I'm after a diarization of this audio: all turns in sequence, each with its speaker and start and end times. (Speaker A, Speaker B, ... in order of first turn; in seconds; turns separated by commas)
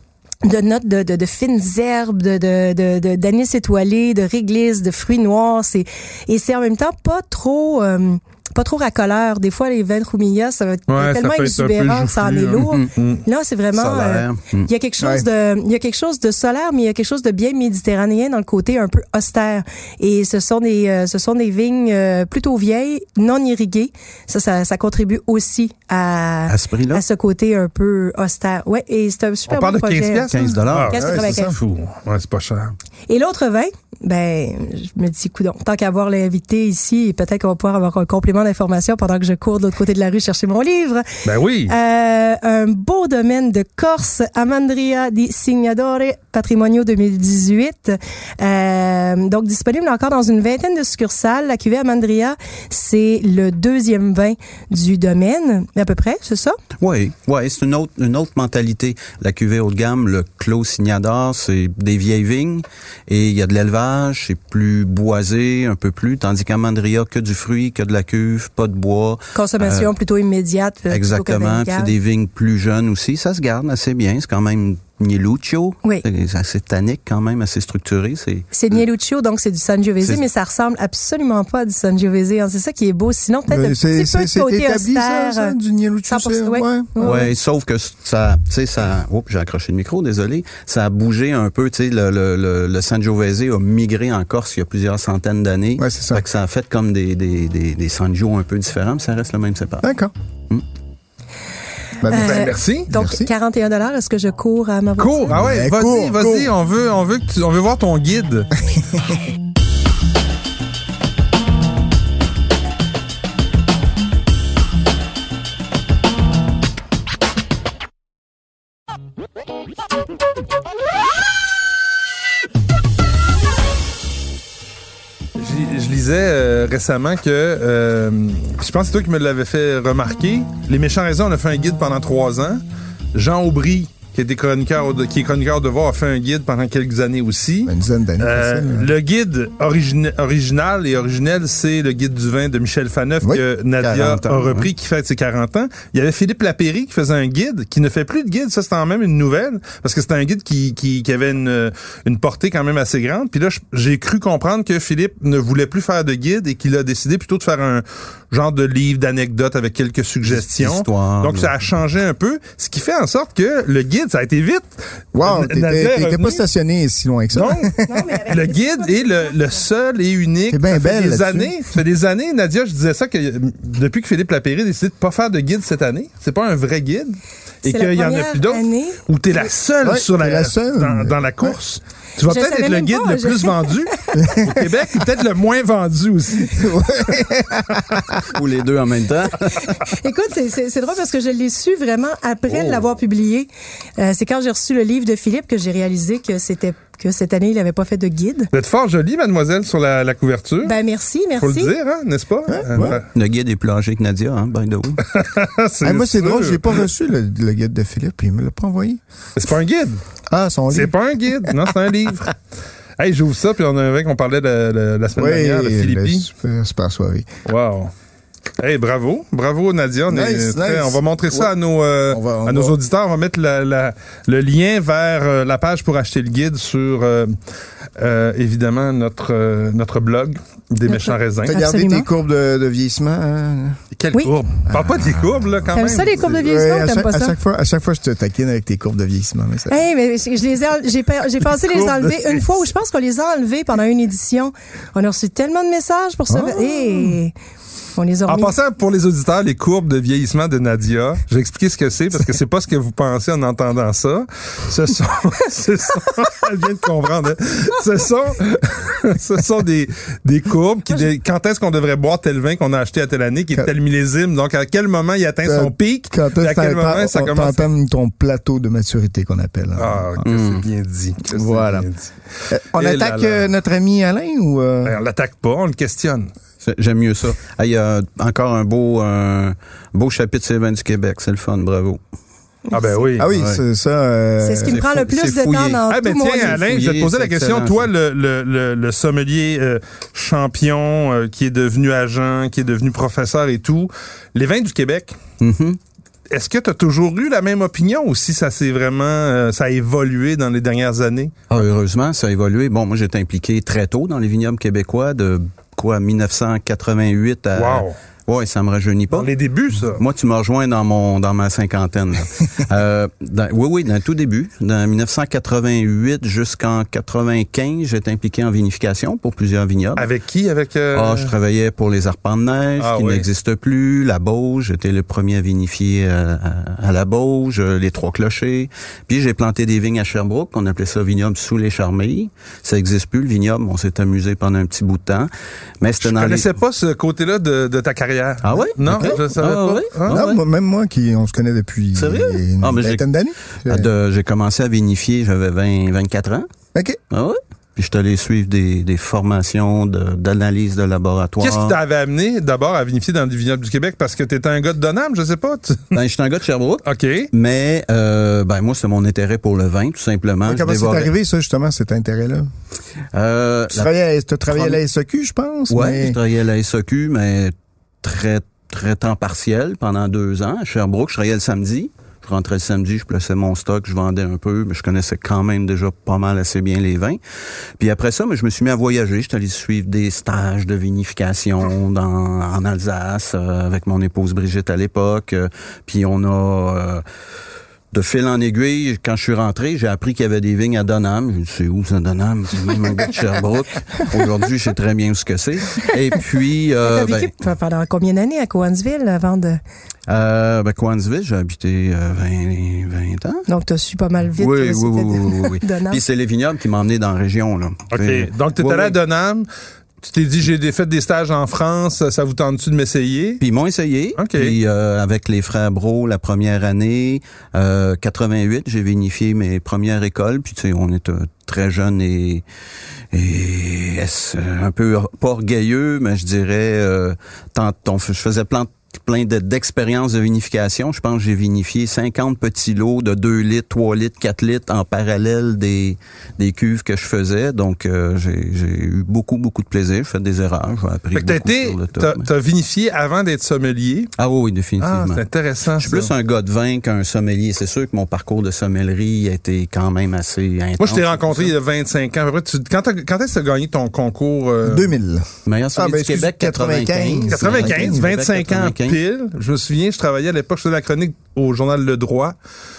Speaker A: 0.4-30.4, Speaker B: 10.9-13.2, Speaker C: 12.6-12.9, Speaker C: 13.7-14.7, Speaker D: 15.0-15.2, Speaker C: 26.5-27.0, Speaker B: 29.5-32.7, Speaker C: 30.3-31.0, Speaker A: 30.9-31.6, Speaker D: 30.9-31.6, Speaker A: 33.1-41.1, Speaker B: 41.2-41.7, Speaker A: 41.7-56.6, Speaker C: 56.8-69.9, Speaker A: 69.3-71.9, Speaker C: 70.9-78.8, Speaker A: 78.5-85.5, Speaker D: 83.5-87.1, Speaker A: 86.1-87.3, Speaker C: 87.0-99.9, Speaker D: 95.8-96.2, Speaker D: 99.8-100.1, Speaker D: 102.0-103.3, Speaker A: 102.1-105.3, Speaker B: 102.1-102.9, Speaker B: 105.0-108.5, Speaker D: 105.3-106.5, Speaker D: 108.8-109.1, Speaker B: 125.4-164.7, Speaker D: 137.7-138.9, Speaker C: 143.8-144.7, Speaker C: 160.3-161.5, Speaker D: 165.1-168.2, Speaker B: 165.2-166.4, Speaker B: 167.3-167.7, Speaker A: 167.9-169.2, Speaker B: 168.3-187.1, Speaker D: 170.5-171.6, Speaker A: 177.7-179.0, Speaker D: 179.8-181.5, Speaker A: 182.2-184.4, Speaker D: 184.2-184.5, Speaker D: 186.4-188.2, Speaker C: 188.2-189.9, Speaker A: 189.9-198.5, Speaker C: 192.5-192.8, Speaker B: 198.5-200.8, Speaker A: 200.6-201.7, Speaker B: 201.4-203.1, Speaker D: 202.5-203.0, Speaker C: 203.1-205.0, Speaker B: 205.1-206.7, Speaker D: 205.8-209.0, Speaker B: 209.4-210.0, Speaker D: 210.3-210.9, Speaker B: 210.7-212.4, Speaker B: 213.0-216.3, Speaker D: 215.2-217.3, Speaker B: 217.5-217.9, Speaker B: 218.6-227.3, Speaker D: 220.1-221.5, Speaker D: 222.1-222.8, Speaker B: 228.0-231.6, Speaker A: 230.9-232.1, Speaker D: 231.4-233.8, Speaker B: 234.0-236.2, Speaker D: 234.7-239.8, Speaker A: 235.7-237.4, Speaker A: 239.7-247.3, Speaker B: 241.7-242.4, Speaker D: 246.3-247.2, Speaker A: 248.0-248.5, Speaker B: 248.3-267.7, Speaker D: 265.4-270.2, Speaker B: 269.8-272.1, Speaker C: 270.2-270.6, Speaker D: 271.3-271.9, Speaker D: 272.5-275.0, Speaker B: 272.7-273.5, Speaker B: 274.9-276.3, Speaker C: 276.6-282.0, Speaker A: 282.7-282.9, Speaker B: 282.7-283.3, Speaker D: 283.2-284.8, Speaker C: 283.3-283.6, Speaker A: 284.4-286.6, Speaker C: 284.7-285.8, Speaker B: 285.9-295.2, Speaker C: 286.4-287.9, Speaker C: 295.4-295.8, Speaker B: 296.3-301.4, Speaker C: 301.5-309.3, Speaker B: 307.6-307.9, Speaker B: 309.1-310.0, Speaker C: 309.9-320.1, Speaker B: 320.0-321.3, Speaker C: 320.9-335.3, Speaker B: 322.8-323.3, Speaker C: 335.8-336.5, Speaker B: 336.0-340.2, Speaker C: 338.4-340.4, Speaker D: 340.1-343.9, Speaker C: 342.0-343.0, Speaker C: 343.7-346.5, Speaker C: 347.1-351.8, Speaker B: 351.4-355.9, Speaker C: 355.9-361.1, Speaker B: 356.9-357.3, Speaker D: 360.4-362.5, Speaker C: 363.1-363.9, Speaker D: 363.7-366.2, Speaker C: 364.5-364.8, Speaker C: 365.7-377.2, Speaker C: 377.8-387.0, Speaker C: 387.9-397.3, Speaker A: 396.8-399.6, Speaker C: 400.1-403.5, Speaker A: 403.5-406.0, Speaker C: 404.4-409.0, Speaker B: 407.9-409.5, Speaker B: 410.0-413.4, Speaker C: 413.4-422.4, Speaker B: 414.2-414.6, Speaker C: 423.1-442.3, Speaker B: 441.1-444.1, Speaker C: 444.2-445.2, Speaker B: 444.8-446.1, Speaker C: 445.8-451.5, Speaker B: 450.8-454.9, Speaker D: 454.6-458.1, Speaker C: 455.5-459.0, Speaker B: 457.3-462.4